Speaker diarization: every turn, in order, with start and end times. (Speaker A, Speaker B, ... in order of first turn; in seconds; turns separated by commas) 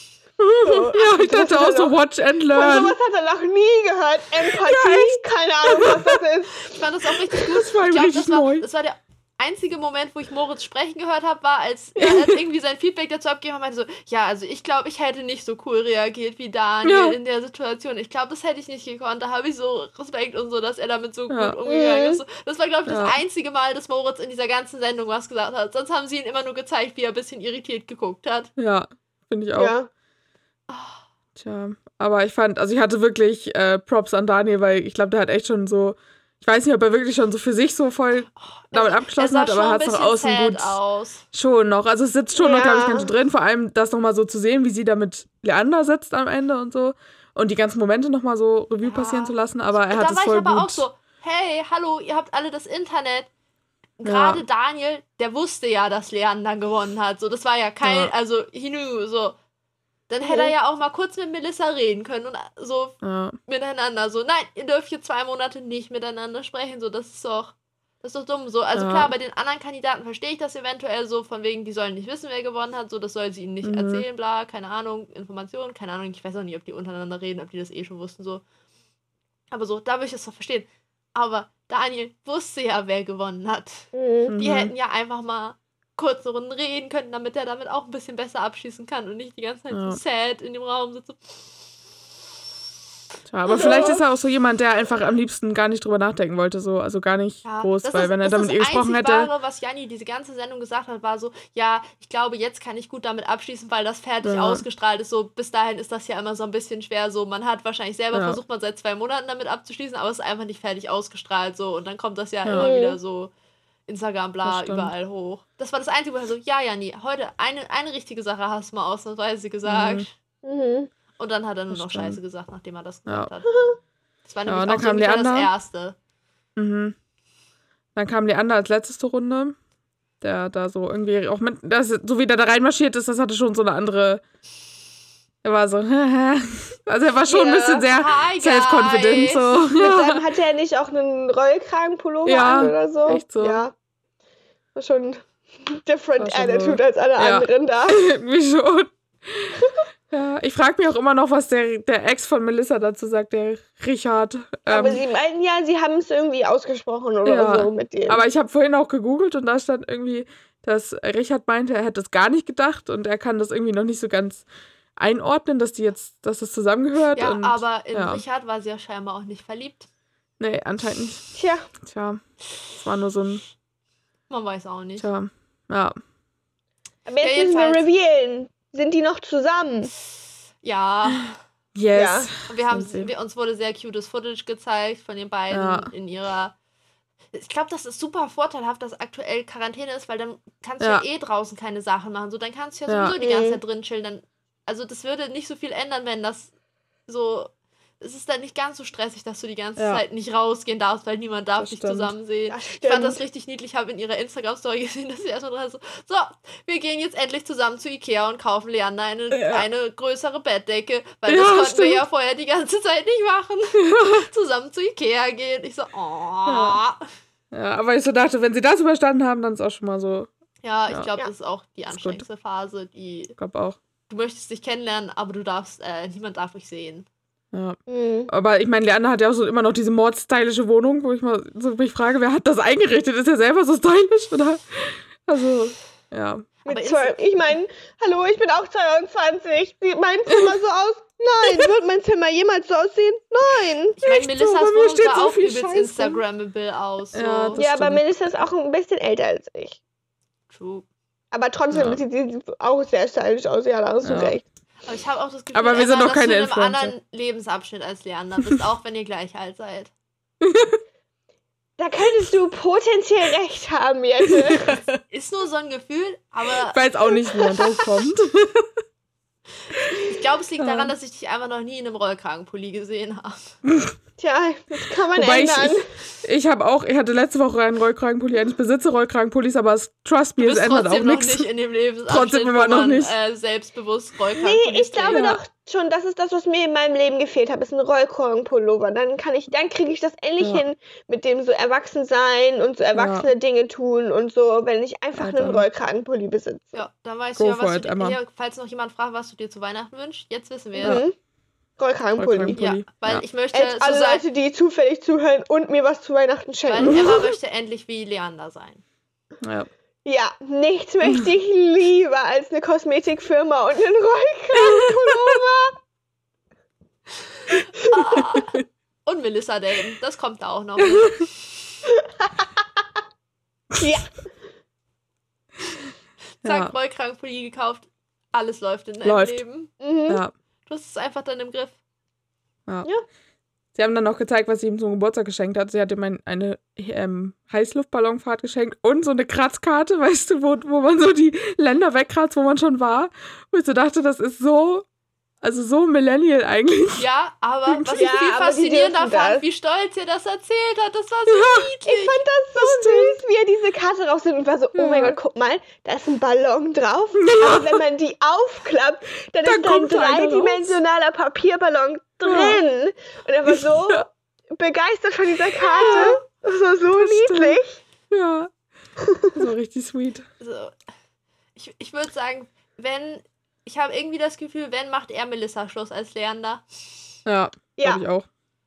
Speaker A: 0.4-2.9, Speaker B: 0.6-1.9, Speaker B: 2.5-6.7, Speaker A: 4.5-6.1, Speaker C: 6.7-28.5, Speaker A: 7.3-8.7, Speaker A: 12.0-12.3, Speaker A: 16.8-17.1, Speaker A: 21.3-21.6, Speaker B: 21.6-22.2, Speaker A: 22.9-23.1, Speaker A: 28.6-29.7, Speaker B: 29.6-29.9, Speaker C: 30.7-31.0, Speaker A: 31.4-40.8, Speaker C: 38.4-41.2, Speaker A: 41.3-50.8, Speaker B: 42.4-43.1, Speaker C: 48.8-53.3, Speaker C: 54.0-59.4, Speaker A: 54.0-54.4, Speaker A: 57.8-58.1, Speaker C: 60.1-78.4, Speaker B: 60.2-60.5, Speaker A: 63.0-63.4, Speaker A: 68.8-69.1, Speaker A: 73.6-74.0, Speaker C: 79.5-91.3, Speaker B: 83.9-84.3, Speaker A: 84.3-84.7, Speaker A: 89.7-90.0, Speaker A: 93.3-99.3, Speaker B: 93.5-94.0, Speaker C: 93.5-93.9, Speaker C: 97.4-113.3, Speaker A: 104.2-104.6, Speaker A: 108.1-108.4, Speaker B: 112.5-113.0, Speaker C: 113.9-120.1, Speaker A: 114.4-114.9, Speaker A: 119.7-120.0, Speaker B: 120.4-120.9, Speaker C: 121.2-123.6, Speaker A: 121.7-122.2, Speaker B: 123.5-123.8, Speaker C: 124.2-126.0, Speaker A: 124.5-125.5, Speaker A: 126.5-126.9, Speaker A: 128.0-129.6, Speaker A: 130.2-134.2, Speaker A: 135.4-140.2, Speaker B: 137.2-137.9, Speaker C: 137.9-139.6, Speaker B: 139.8-143.7, Speaker A: 142.2-143.6, Speaker B: 144.7-148.0, Speaker A: 146.2-155.0, Speaker B: 149.6-149.8, Speaker B: 154.7-158.2, Speaker A: 157.2-164.4, Speaker A: 165.0-168.2, Speaker C: 167.1-169.9, Speaker A: 170.4-171.2, Speaker B: 171.3-171.7, Speaker A: 171.8-173.4, Speaker C: 174.3-175.1, Speaker A: 175.0-175.9, Speaker B: 177.1-179.9, Speaker C: 177.2-177.8, Speaker C: 180.6-181.4, Speaker A: 181.7-183.1, Speaker B: 181.9-182.3, Speaker C: 182.5-186.5, Speaker A: 185.5-185.9, Speaker C: 187.3-196.5, Speaker A: 192.9-193.1, Speaker B: 193.2-193.6, Speaker C: 197.1-217.1, Speaker A: 199.8-200.0, Speaker A: 201.6-202.1, Speaker B: 202.5-203.2, Speaker A: 209.3-209.6, Speaker A: 211.3-212.0, Speaker A: 213.8-214.3, Speaker A: 216.5-216.8, Speaker A: 217.5-220.3, Speaker C: 220.6-223.3, Speaker A: 221.9-222.2, Speaker A: 223.4-223.8, Speaker C: 224.1-227.1, Speaker A: 227.5-236.5, Speaker B: 227.9-228.3, Speaker C: 236.6-237.2, Speaker B: 236.7-244.0, Speaker C: 244.0-247.6, Speaker A: 244.0-246.2, Speaker A: 247.1-248.0, Speaker B: 247.6-249.8, Speaker C: 250.5-250.8, Speaker B: 251.3-254.4, Speaker A: 251.7-252.0, Speaker A: 254.0-254.4, Speaker C: 254.8-259.9, Speaker A: 255.5-256.9, Speaker A: 260.4-260.8, Speaker B: 261.8-264.7, Speaker A: 264.3-265.0, Speaker C: 265.1-267.5, Speaker A: 266.7-268.8, Speaker C: 269.9-273.6, Speaker A: 270.6-270.9, Speaker A: 273.7-273.9, Speaker B: 274.2-275.9, Speaker A: 275.1-281.5, Speaker C: 280.4-285.3, Speaker A: 282.1-283.1, Speaker B: 284.4-296.8, Speaker A: 285.1-285.4, Speaker A: 292.9-293.3, Speaker A: 295.2-295.6, Speaker C: 296.7-301.0, Speaker A: 297.4-298.2, Speaker B: 300.8-301.1, Speaker B: 301.8-302.6, Speaker A: 302.2-303.2, Speaker C: 302.6-304.2, Speaker B: 303.5-307.2, Speaker C: 306.7-308.8, Speaker A: 309.4-309.7, Speaker B: 310.0-315.7, Speaker A: 314.6-315.3, Speaker C: 317.5-321.6, Speaker B: 323.8-324.3, Speaker C: 326.4-329.7, Speaker A: 326.4-326.7, Speaker A: 329.0-329.4, Speaker B: 329.8-330.2, Speaker C: 330.7-331.8, Speaker A: 333.7-344.8, Speaker A: 345.4-347.1, Speaker C: 347.0-352.2, Speaker A: 347.7-348.0, Speaker B: 347.9-349.4, Speaker A: 351.3-351.6, Speaker B: 351.9-367.8, Speaker A: 352.6-353.2, Speaker A: 354.7-355.2, Speaker A: 357.2-357.8, Speaker A: 359.4-360.8, Speaker A: 362.2-362.6, Speaker A: 363.5-364.0, Speaker A: 365.6-366.2, Speaker A: 366.9-368.5, Speaker B: 369.0-369.3, Speaker A: 369.3-370.2, Speaker C: 370.4-370.8, Speaker C: 371.6-376.6, Speaker A: 377.2-378.3, Speaker B: 377.8-378.0